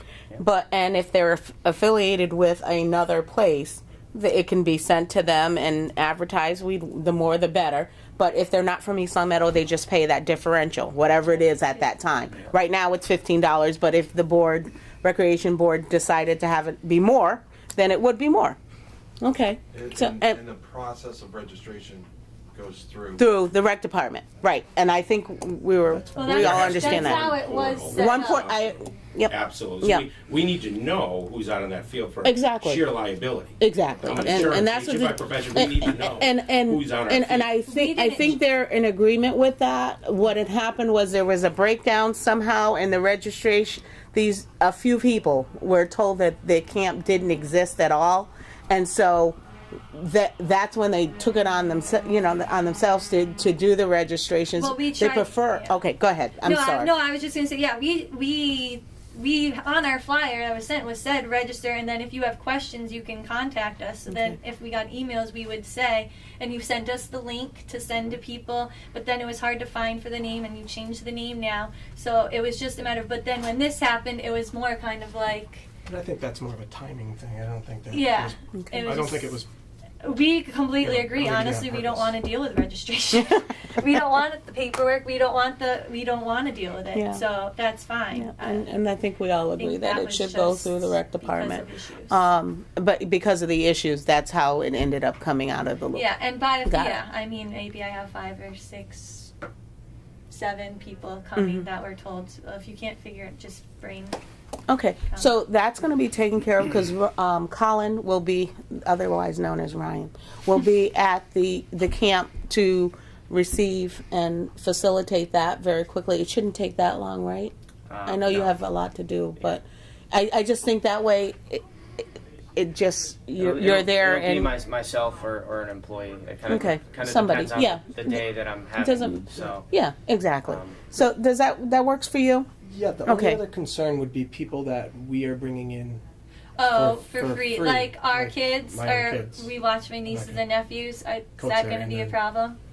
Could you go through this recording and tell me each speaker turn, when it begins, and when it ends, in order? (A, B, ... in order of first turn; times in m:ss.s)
0:00.4-0:18.6 A
0:19.2-0:20.4 A
0:19.7-0:23.2 B
0:23.2-0:27.4 A
0:26.0-0:26.6 C
0:26.2-0:28.5 D
0:26.3-0:28.8 E
0:27.9-0:30.1 A
0:29.3-0:37.5 E
0:32.2-0:32.8 A
0:33.6-0:49.4 A
0:37.7-0:38.4 D
0:49.9-0:56.9 A
0:54.6-0:55.8 D
0:56.4-1:15.7 D
1:04.1-1:04.4 A
1:15.9-1:19.5 C
1:17.9-1:19.4 D
1:18.6-1:19.0 A
1:20.0-1:28.7 D
1:20.8-1:22.1 C
1:26.9-1:27.2 A
1:28.1-1:36.1 A
1:29.6-1:32.3 D
1:35.9-1:39.3 D
1:36.6-1:37.0 A
1:40.3-1:44.2 D
1:41.4-1:41.7 A
1:44.7-1:57.5 A
1:57.9-1:58.6 F
1:58.0-2:01.6 A
2:02.6-2:04.6 A
2:03.4-2:09.7 F
2:06.5-2:08.2 A
2:08.8-2:12.5 A
2:10.4-2:10.8 F
2:12.6-2:16.0 C
2:13.1-2:13.4 A
2:16.6-2:22.6 D
2:16.7-2:20.5 C
2:21.4-2:22.2 C